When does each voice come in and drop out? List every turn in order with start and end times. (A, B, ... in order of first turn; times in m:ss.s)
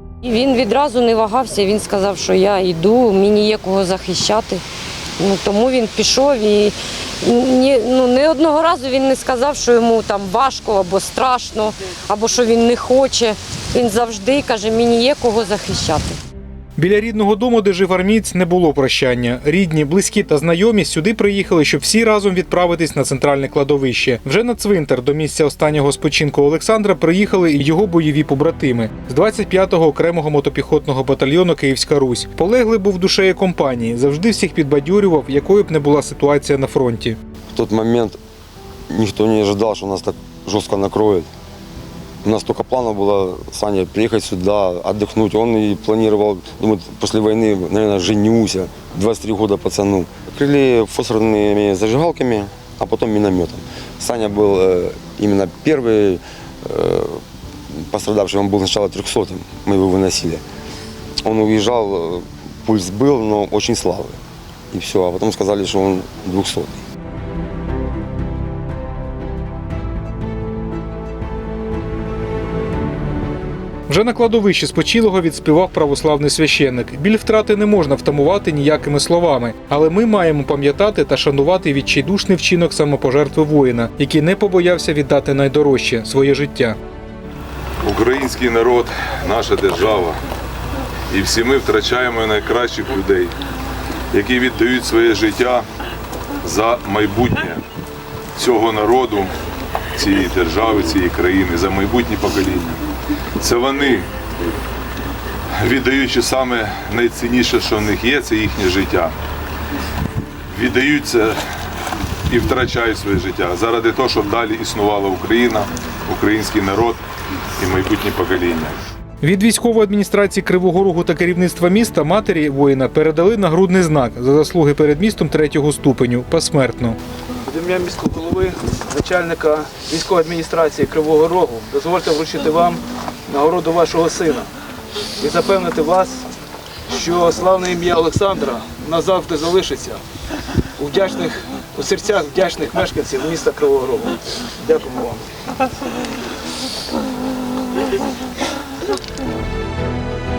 0:00.2-0:04.6 A
0:05.2-0:16.2 A
0:16.8-0:37.2 B
0:37.5-0:38.2 C
0:38.9-0:41.3 C
0:42.2-1:00.4 C
1:01.2-1:04.2 C
1:04.7-1:06.8 C
1:13.9-1:26.8 B
1:27.8-1:30.2 D
1:31.1-1:33.3 D
1:34.1-1:35.6 D
1:36.4-1:37.6 D
1:38.4-1:39.3 D
1:40.0-1:42.8 D
1:43.4-1:44.1 D
1:45.6-1:49.1 D
1:50.5-1:51.4 D
1:52.3-1:57.0 D
1:57.6-1:58.8 D
1:59.2-2:07.0 B
2:07.5-2:14.4 E
2:15.2-2:16.2 E
2:16.9-2:20.0 E
2:20.8-2:25.2 E